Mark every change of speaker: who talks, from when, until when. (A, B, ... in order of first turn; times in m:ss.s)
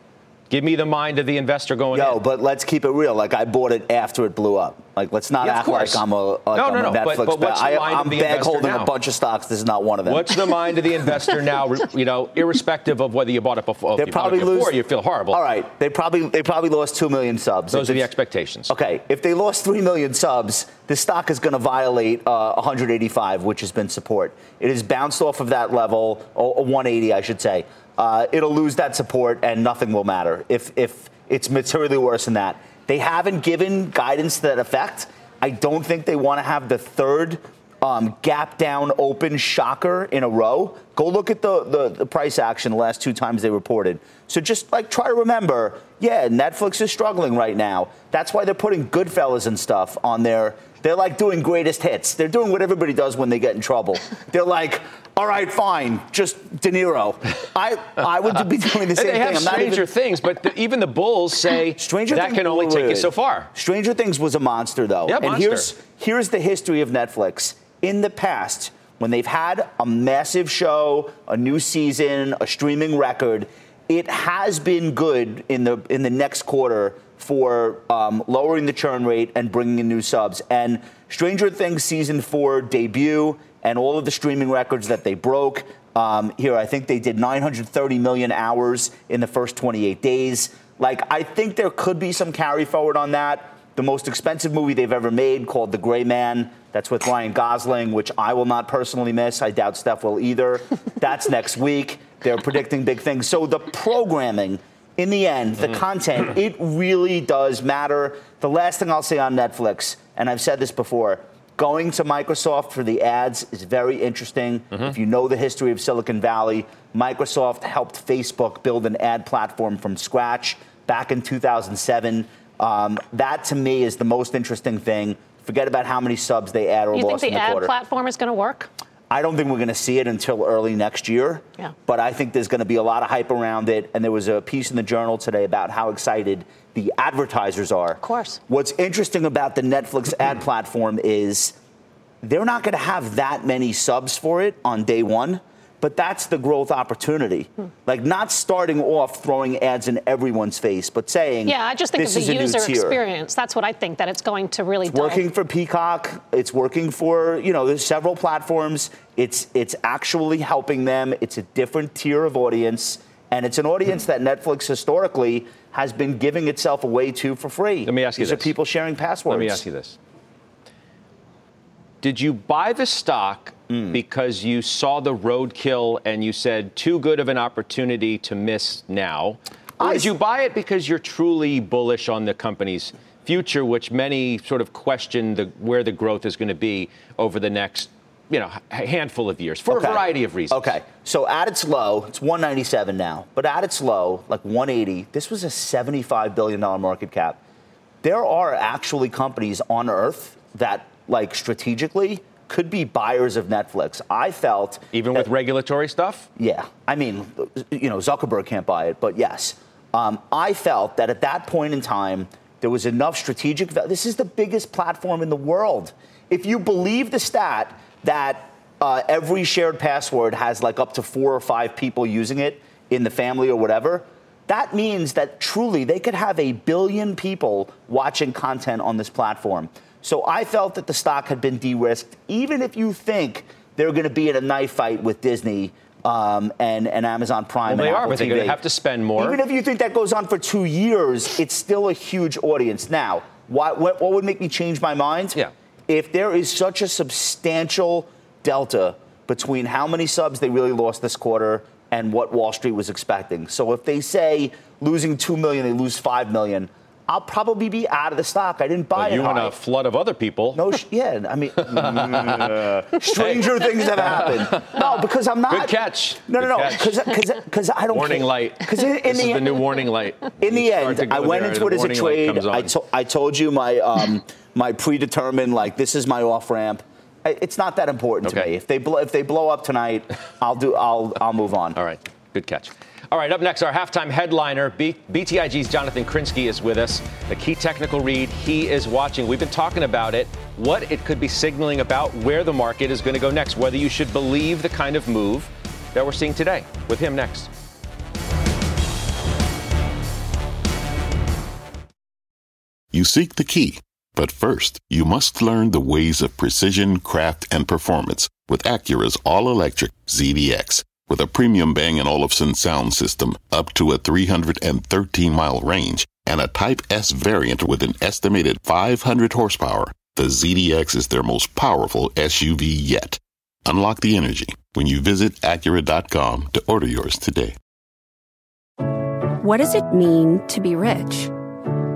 0:00.5-0:02.2 A
0:01.9-0:10.4 B
0:05.4-0:06.0 A
0:06.5-0:08.9 A
0:10.0-0:15.4 A
0:14.0-0:18.1 B
0:17.7-0:18.7 A
0:18.7-0:59.9 B
0:58.9-1:03.5 A
1:01.8-2:07.7 B
1:05.0-1:05.7 A
2:06.9-2:08.7 C
2:09.1-2:21.6 B
2:18.0-2:18.4 C
2:22.2-2:33.0 B
2:31.4-2:35.2 C
2:34.8-2:49.6 B
2:47.8-2:48.5 A
2:49.3-2:50.0 A
2:52.0-3:10.7 A
2:53.7-2:54.0 B
2:59.8-3:00.1 B
3:09.6-3:17.4 B
3:18.0-3:25.3 B
3:24.9-3:26.3 A
3:26.4-3:58.6 B
3:57.6-3:59.4 A
3:59.2-4:19.6 B
4:18.9-4:20.6 A
4:20.5-4:25.7 B
4:21.6-4:27.1 A
4:26.2-4:29.6 B
4:27.9-4:32.7 A
4:30.4-4:41.8 B
4:41.7-4:57.5 A
5:02.9-5:27.5 D
5:29.4-5:31.3 E